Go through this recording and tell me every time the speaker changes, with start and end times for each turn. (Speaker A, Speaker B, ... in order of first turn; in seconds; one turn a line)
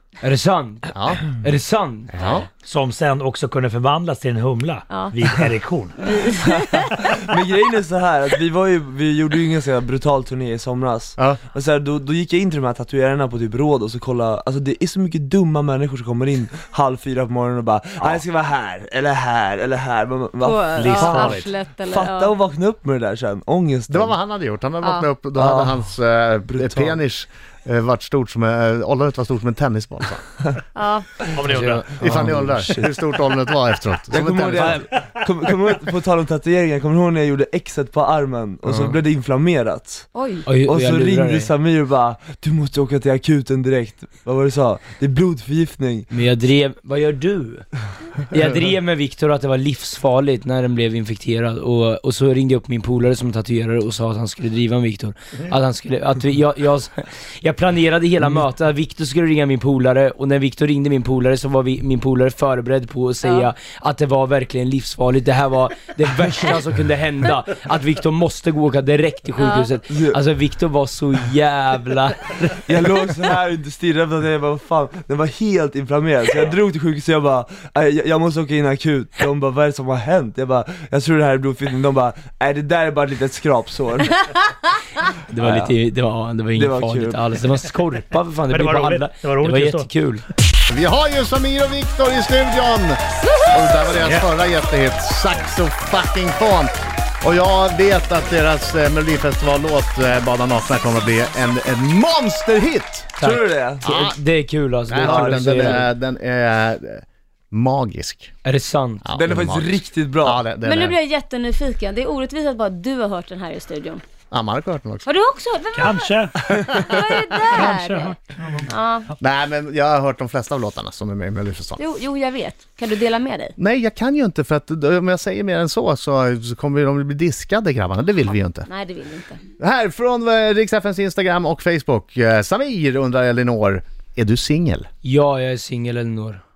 Speaker A: 0.2-2.2
Speaker B: 0.9-1.2
Speaker B: 2.1-2.5
Speaker C: 2.6-6.0
Speaker D: 4.9-5.2
Speaker D: 6.0-6.9
Speaker E: 6.4-24.2
Speaker D: 20.4-22.3
Speaker C: 20.8-21.5
Speaker B: 23.9-30.2
Speaker D: 24.8-25.1
Speaker E: 25.3-25.9
Speaker E: 26.4-27.0
Speaker D: 30.7-31.2
Speaker C: 31.3-31.9
Speaker A: 31.4-31.8
Speaker E: 31.9-33.1
Speaker B: 32.0-34.9
Speaker E: 34.1-46.1
Speaker A: 38.7-38.9
Speaker D: 40.1-40.5
Speaker A: 40.5-41.5
Speaker A: 46.1-47.7
Speaker A: 48.3-72.6
Speaker D: 69.4-69.7
Speaker E: 69.9-70.2
Speaker E: 72.7-84.5
Speaker A: 85.3-90.2
Speaker E: 85.4-85.7
Speaker E: 86.5-87.2
Speaker C: 88.5-89.9
Speaker B: 90.7-103.1
Speaker A: 103.2-105.8
Speaker E: 103.2-103.8
Speaker B: 103.8-104.2
Speaker B: 104.9-108.3
Speaker E: 105.0-105.8
Speaker A: 108.4-109.0
Speaker B: 109.0-111.0
Speaker E: 109.2-110.4
Speaker D: 110.6-114.0
Speaker B: 114.3-115.0
Speaker D: 115.0-116.1
Speaker C: 115.7-118.7
Speaker D: 116.7-118.2
Speaker D: 118.7-119.0
Speaker B: 119.2-121.8
Speaker D: 121.8-123.5
Speaker B: 123.6-128.7
Speaker D: 128.7-129.4
Speaker B: 129.6-134.9
Speaker A: 135.0-136.4